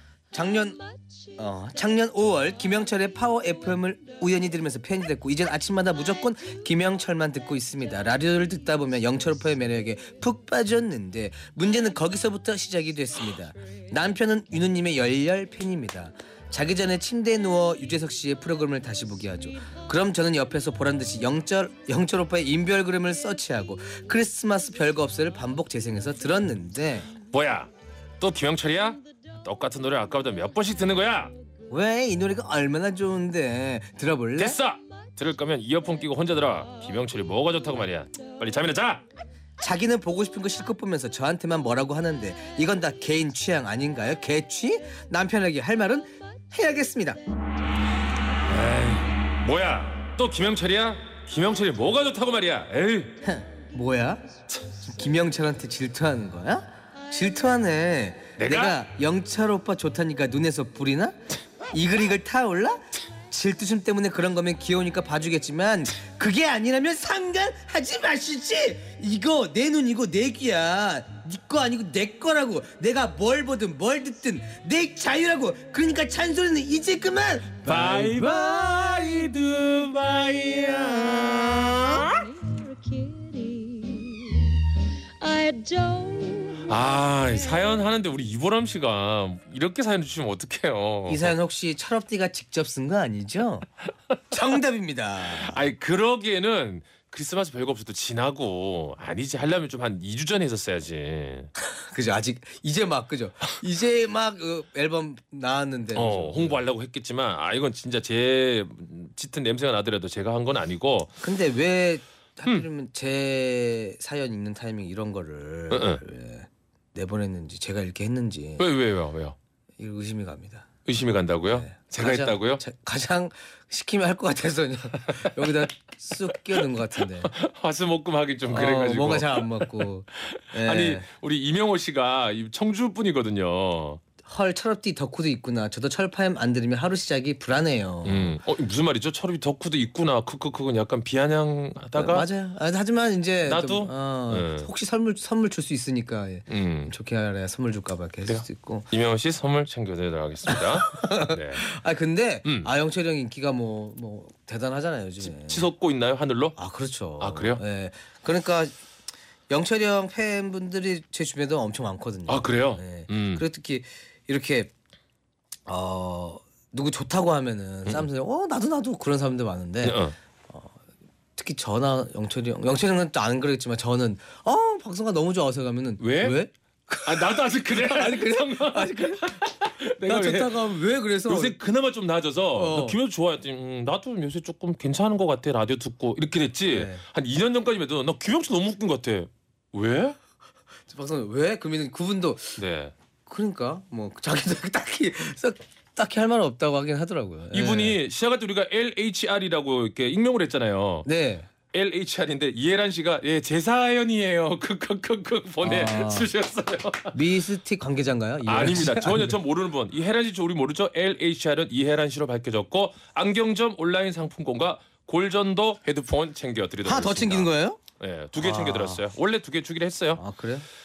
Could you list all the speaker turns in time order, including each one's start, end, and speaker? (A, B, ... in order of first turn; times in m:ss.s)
0:00.3-0:27.1 A
0:27.3-0:31.4 B
0:31.7-0:34.6 A
0:34.4-0:39.0 B
0:39.6-0:47.2 A
0:48.5-0:53.2 B
0:53.2-1:01.2 A
0:58.4-0:58.8 B
1:01.7-1:18.5 A
1:17.7-1:22.2 B
1:20.6-1:22.0 A
1:22.1-1:26.7 C
1:26.6-1:31.3 B
1:31.1-1:33.7 A
1:34.3-1:35.7 A
1:35.4-1:41.5 B
1:41.7-1:46.6 A
1:45.9-1:51.2 B
1:51.2-1:58.7 A
1:55.7-1:56.0 B
1:58.6-1:59.4 B
1:59.8-2:00.7 A
2:00.9-2:02.6 B
2:01.6-2:07.3 A
2:07.0-2:14.0 B
2:08.5-2:11.1 A
2:14.2-2:18.4 A
2:18.0-2:22.3 B
2:22.0-2:28.9 A
2:23.4-2:24.7 B
2:26.5-2:26.9 B
2:28.3-2:31.6 B
2:30.5-2:35.7 A
2:32.4-2:32.7 B
2:35.2-2:36.6 B
2:36.6-2:38.8 A
2:37.2-2:37.6 B
2:39.5-2:44.7 A
2:42.3-2:43.4 B
2:45.7-2:50.8 A
2:49.8-2:50.2 B
2:51.4-2:59.5 A
2:56.0-2:56.4 B
2:57.0-3:10.2 B
3:00.0-3:01.6 A
3:02.5-3:03.0 A
3:06.7-3:07.0 A
3:10.9-3:12.6 A
3:12.6-3:12.9 B
3:13.3-3:18.0 A
3:17.5-3:21.1 B
3:21.0-3:21.5 A
3:21.7-3:27.2 B
3:25.6-3:26.3 A
3:27.1-3:29.4 A
3:28.4-3:40.2 B
3:36.8-3:37.8 A
3:38.4-3:39.0 A
3:40.2-3:40.7 A